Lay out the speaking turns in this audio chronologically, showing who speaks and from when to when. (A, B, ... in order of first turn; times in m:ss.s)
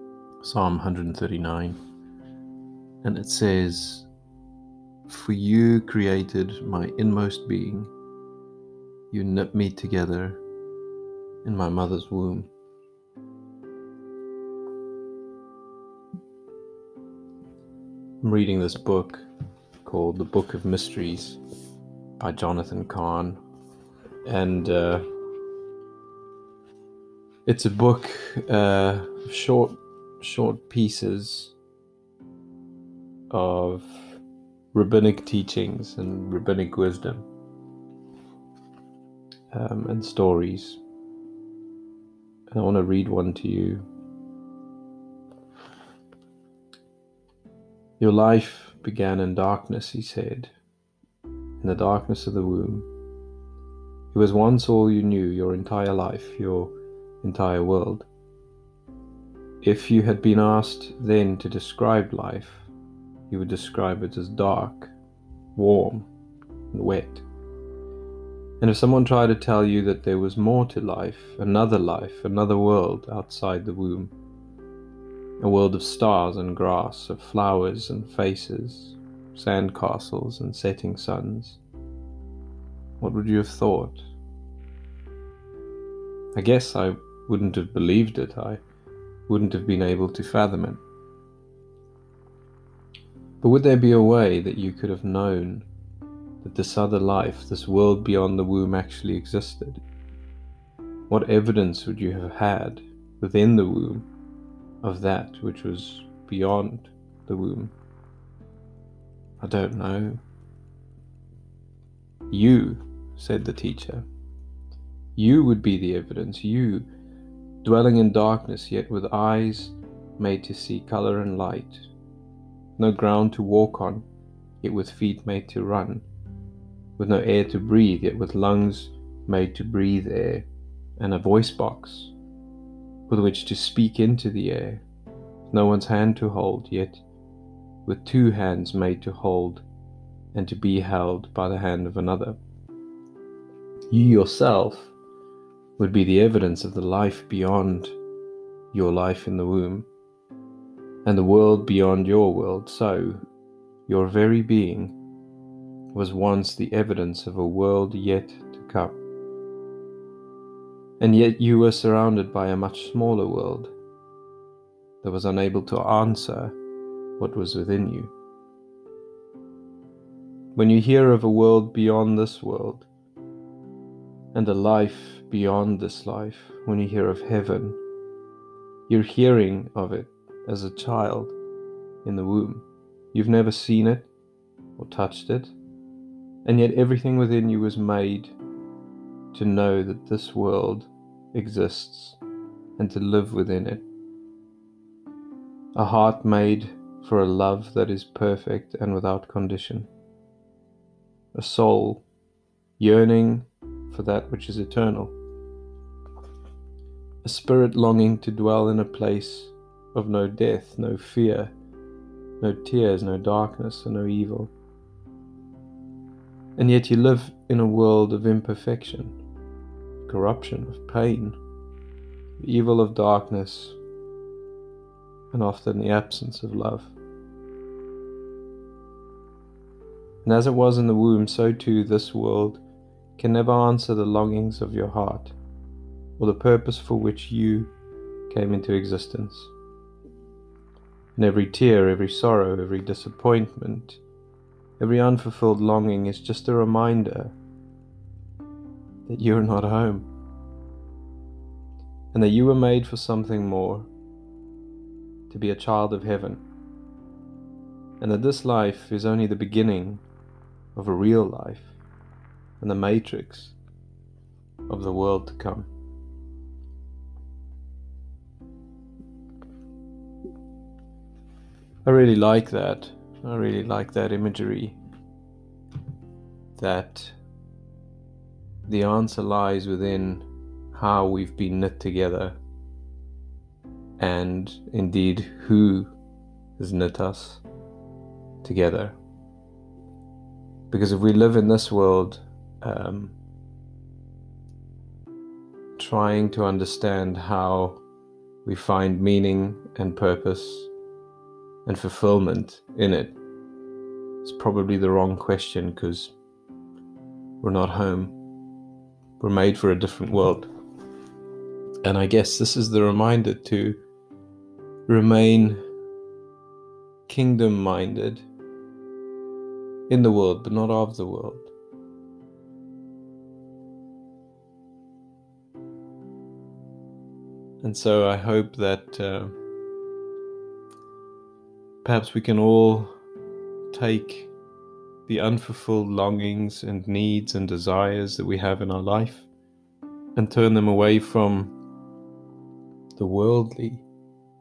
0:00.4-0:01.8 A
0:03.0-0:04.1 A
0:05.1-0:07.9 A
0:09.1-0:10.4 A
0:11.4-0:12.5 A
0:18.2-0:19.3 A
0:19.8-0:21.4 A
0:22.2-0:23.4 A
0:24.2-0:25.0 A
0:27.4-0:31.5 A
0:33.3-0:34.2 A
0:34.7-0:37.3 A
0:39.5-0:40.8 A
0:42.5-0:43.8 A
0:48.0-0:50.5 A
0:51.6-0:52.9 A
0:54.1-0:58.1 A
0:59.6-1:02.7 A
1:03.3-1:04.9 A
1:05.5-1:06.1 A
1:06.7-1:07.2 A
1:08.6-1:14.1 A
1:15.4-1:21.6 A
1:23.0-1:24.0 A
1:26.3-1:28.6 A
1:29.3-1:30.8 A
1:33.4-1:35.7 A
1:36.4-1:39.8 A
1:41.1-1:44.1 A
1:44.8-1:47.7 A
1:49.4-1:50.2 A
1:52.3-1:54.1 A
1:55.2-1:56.9 A
1:57.6-2:01.9 A
2:02.8-2:04.1 A
2:04.6-2:06.0 A
2:07.0-2:12.1 A
2:13.1-2:14.8 A
2:15.5-2:17.0 A
2:17.8-2:19.6 A
2:20.3-2:22.4 A
2:23.9-2:24.9 A
2:25.8-2:28.0 A
2:28.7-2:29.9 A
2:31.0-2:33.2 A
2:33.9-2:35.0 A
2:35.9-2:39.0 A
2:41.0-2:43.7 A
2:45.0-2:46.6 A
2:47.2-2:48.1 A
2:50.5-2:52.9 A
2:54.3-2:57.8 A
2:58.9-3:01.4 A
3:02.0-3:04.1 A
3:04.8-3:05.5 A
3:06.4-3:08.4 A
3:09.3-3:12.2 A
3:12.8-3:13.8 A
3:15.7-3:19.9 A
3:21.3-3:22.0 A
3:22.8-3:25.2 A
3:27.2-3:31.5 A
3:32.4-3:34.5 A
3:36.6-3:39.2 A
3:40.0-3:41.4 A
3:42.4-3:43.8 A
3:45.3-3:46.9 A
3:50.2-3:52.6 A
3:53.2-3:55.4 A
3:56.2-3:57.7 A
3:58.3-3:59.5 A
4:01.2-4:04.0 A
4:04.8-4:07.4 A
4:09.0-4:10.1 A
4:12.1-4:13.9 A
4:15.3-4:16.4 A
4:18.0-4:20.0 A
4:20.7-4:21.8 A
4:22.6-4:23.6 A
4:24.7-4:25.7 A
4:31.8-4:34.8 A
4:36.6-4:37.2 A
4:38.7-4:42.4 A
4:44.0-4:45.9 A
4:46.6-4:47.4 A
4:48.4-4:49.0 A
4:50.7-4:53.2 A
4:55.8-4:57.8 A
4:58.4-5:00.7 A
5:01.6-5:03.2 A
5:04.2-5:06.1 A
5:07.4-5:08.2 A
5:09.2-5:10.5 A
5:11.8-5:13.8 A
5:14.9-5:15.6 A
5:17.1-5:18.2 A
5:19.9-5:21.5 A
5:27.6-5:29.4 A
5:31.8-5:33.0 A
5:33.7-5:34.3 A
5:35.0-5:39.3 A
5:40.2-5:41.5 A
5:43.0-5:43.8 A